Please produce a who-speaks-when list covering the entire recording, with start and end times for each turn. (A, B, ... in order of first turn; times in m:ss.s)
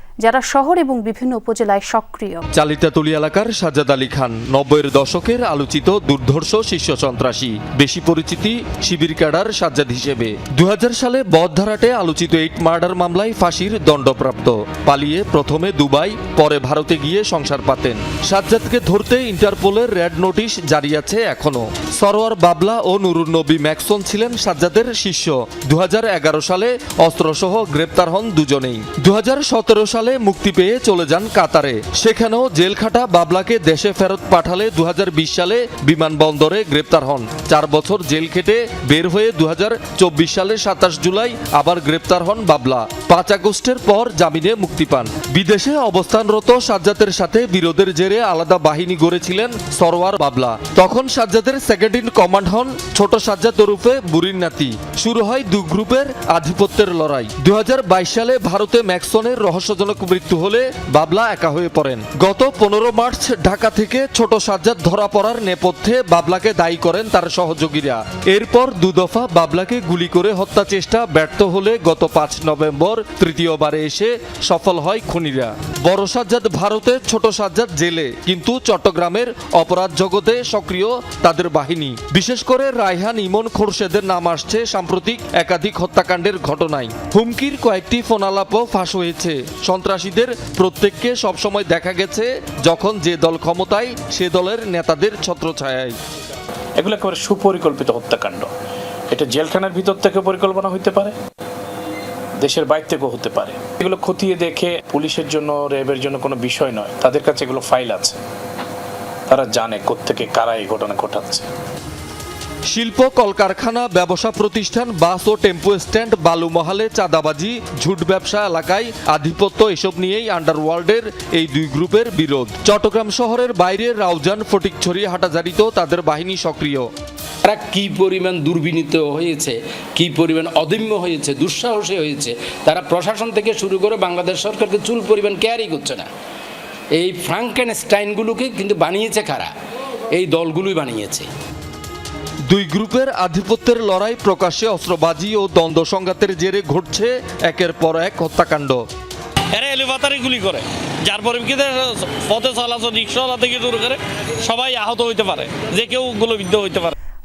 0:00.2-0:02.4 A
0:02.6-1:36.0 B
1:36.8-1:38.5 C
1:39.1-1:41.2 C
1:42.4-1:48.2 C
1:49.3-1:51.5 C
1:52.7-2:06.9 B
2:07.5-2:16.1 D
2:17.0-2:19.5 D
2:20.1-2:21.3 D
2:22.5-2:28.8 B
2:29.5-2:36.9 E